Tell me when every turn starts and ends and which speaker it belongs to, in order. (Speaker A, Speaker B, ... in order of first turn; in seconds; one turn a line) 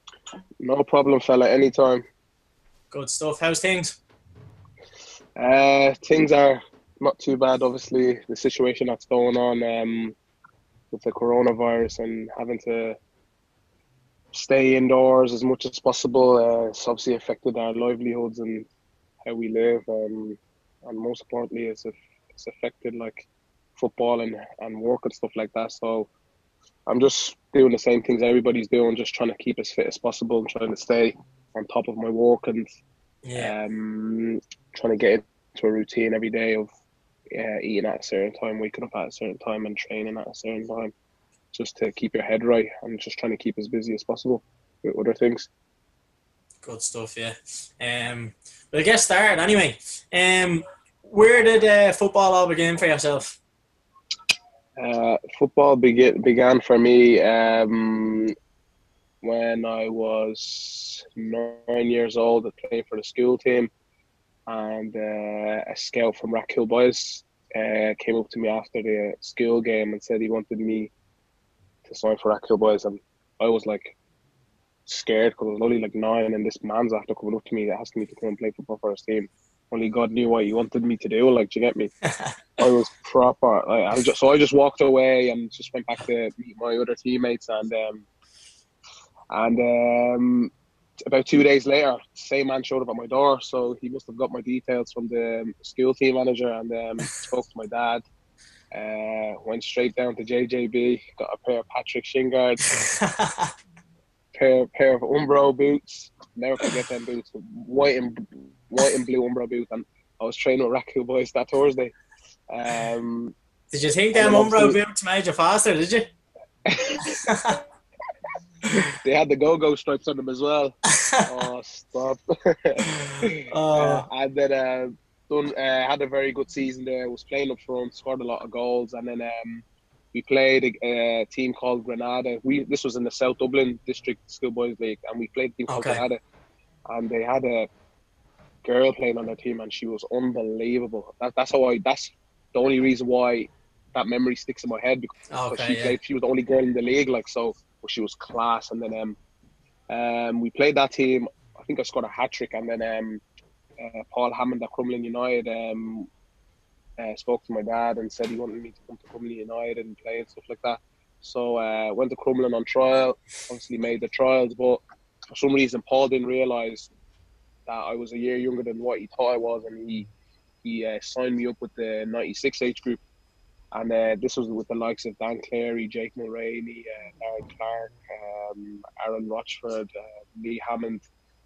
Speaker A: 0.6-2.1
Speaker B: 2.9-4.0
Speaker A: 5.4-10.2
Speaker A: 10.9-13.0
Speaker A: 14.3-18.7
Speaker A: 19.2-26.1
Speaker A: 26.9-32.7
Speaker B: 33.2-33.5
Speaker A: 33.4-36.7
Speaker A: 37.3-40.9
Speaker A: 41.5-45.5
Speaker B: 46.6-53.4
Speaker A: 54.8-58.3
Speaker A: 59.2-63.7
Speaker A: 64.5-70.9
Speaker A: 71.8-74.0
Speaker A: 74.9-81.9
Speaker A: 82.6-88.1
Speaker A: 89.3-90.5
Speaker A: 91.1-98.0
Speaker A: 98.7-102.7
Speaker B: 102.8-103.5
Speaker A: 104.3-111.9
Speaker A: 112.5-113.3
Speaker B: 113.7-116.1
Speaker A: 114.1-114.8
Speaker A: 116.7-117.2
Speaker B: 117.0-117.6
Speaker A: 119.0-136.2
Speaker B: 123.1-124.1
Speaker B: 135.7-136.0
Speaker A: 136.9-137.7
Speaker A: 138.6-149.2
Speaker B: 145.3-145.9
Speaker A: 149.9-153.2
Speaker A: 153.8-156.1
Speaker A: 157.0-164.8
Speaker A: 165.3-166.9
Speaker A: 167.7-170.1
Speaker A: 170.6-173.0
Speaker A: 173.7-181.1